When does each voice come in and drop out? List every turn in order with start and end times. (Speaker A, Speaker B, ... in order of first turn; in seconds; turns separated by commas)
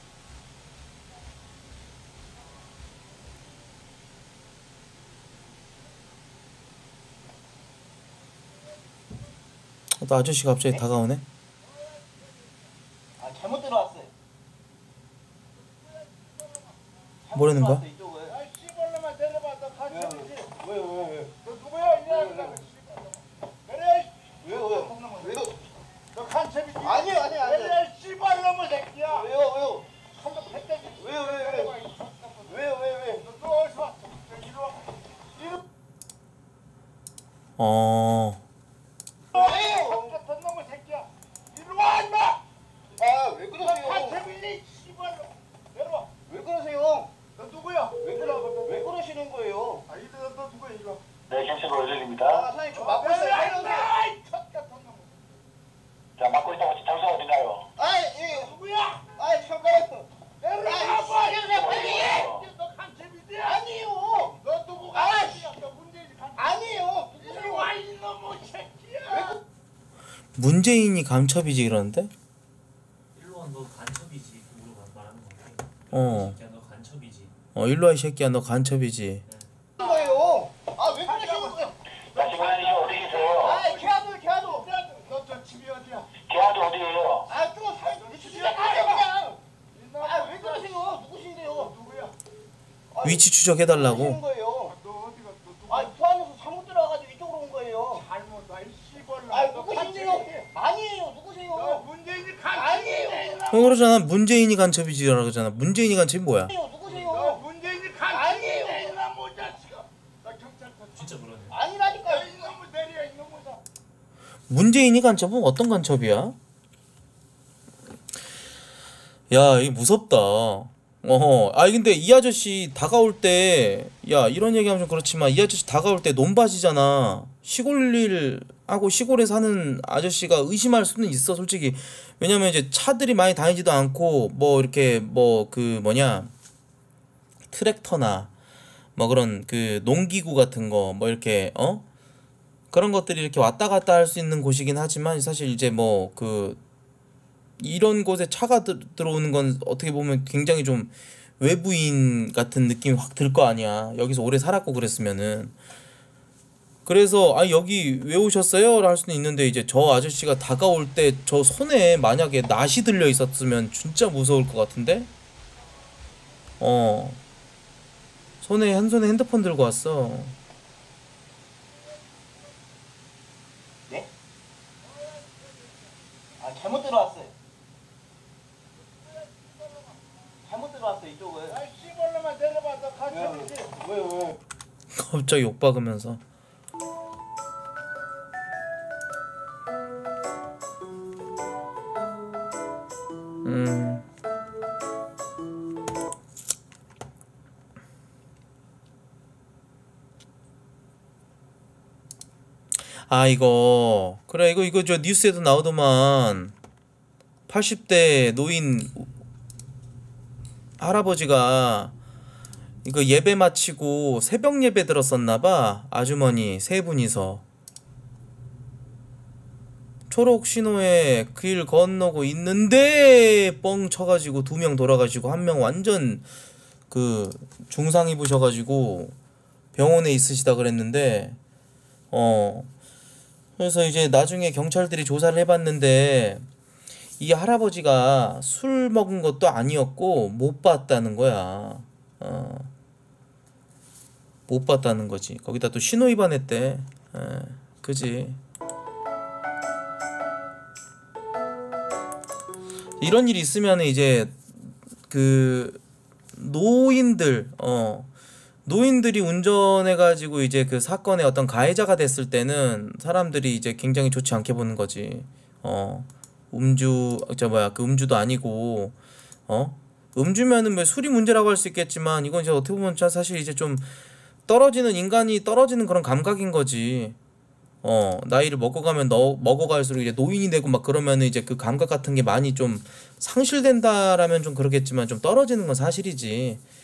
Speaker A: 10.0-11.2, Speaker B: 13.2-14.1, Speaker C: 15.6-16.8, Speaker B: 17.2-18.4, Speaker A: 17.3-17.8, Speaker C: 18.2-20.5, Speaker B: 19.9-21.3, Speaker C: 21.4-25.5, Speaker B: 21.9-22.6, Speaker B: 24.4-25.6, Speaker C: 26.1-29.3, Speaker B: 26.8-27.8, Speaker B: 29.1-29.9, Speaker C: 30.1-35.6, Speaker B: 30.9-31.7, Speaker B: 32.5-33.2, Speaker A: 37.6-38.4, Speaker C: 39.3-42.4, Speaker B: 39.3-40.1, Speaker B: 43.0-44.2, Speaker C: 43.5-46.2, Speaker B: 46.2-47.1, Speaker C: 47.4-48.9, Speaker B: 48.0-49.8, Speaker C: 49.9-51.0, Speaker D: 51.3-52.5, Speaker B: 52.3-53.9, Speaker C: 52.6-55.2, Speaker D: 56.2-57.6, Speaker B: 57.8-58.5, Speaker C: 58.2-59.2, Speaker B: 59.1-60.0, Speaker C: 60.4-69.4, Speaker B: 60.6-62.3, Speaker D: 61.5-62.4, Speaker B: 63.4-64.3, Speaker B: 64.9-65.5, Speaker B: 66.4-67.7, Speaker B: 69.1-69.4, Speaker A: 70.3-72.1, Speaker E: 73.1-77.3, Speaker A: 75.9-76.4, Speaker A: 77.5-79.2, Speaker B: 79.8-81.7, Speaker C: 79.8-86.1, Speaker D: 82.1-83.6, Speaker B: 83.2-84.7, Speaker D: 86.2-87.3, Speaker B: 87.3-89.4, Speaker C: 87.7-89.1, Speaker C: 89.7-90.9, Speaker B: 90.0-91.7, Speaker C: 91.5-92.1, Speaker B: 92.9-94.7, Speaker A: 93.0-94.2, Speaker C: 94.6-96.0, Speaker B: 95.7-98.0, Speaker C: 97.9-100.5, Speaker B: 99.3-101.9, Speaker C: 101.5-103.8, Speaker B: 102.5-103.5, Speaker A: 103.5-106.5, Speaker B: 106.5-107.4, Speaker C: 106.8-111.2, Speaker B: 108.1-109.0, Speaker E: 110.9-111.6, Speaker B: 111.5-112.3, Speaker C: 112.0-113.6, Speaker A: 114.5-116.3, Speaker A: 119.3-136.3, Speaker A: 137.5-138.3, Speaker A: 138.9-141.8, Speaker A: 142.7-146.6, Speaker A: 147.6-155.5, Speaker A: 156.8-165.1, Speaker A: 166.6-167.2, Speaker A: 168.4-170.3, Speaker C: 175.0-175.8, Speaker B: 176.4-177.3, Speaker C: 178.8-180.0, Speaker B: 180.4-181.6, Speaker C: 181.5-183.8, Speaker B: 183.1-184.4, Speaker A: 184.9-186.2, Speaker A: 193.4-194.0, Speaker A: 203.1-206.5, Speaker A: 207.5-209.1, Speaker A: 210.8-211.9, Speaker A: 212.8-217.4, Speaker A: 220.1-226.3, Speaker A: 226.9-229.1, Speaker A: 229.7-231.4, Speaker A: 232.1-232.7, Speaker A: 233.6-236.4, Speaker A: 237.2-242.7, Speaker A: 244.5-248.4, Speaker A: 253.0-255.8, Speaker A: 256.3-258.1, Speaker A: 258.6-268.9, Speaker A: 269.5-273.9, Speaker A: 274.5-277.2, Speaker A: 277.8-286.6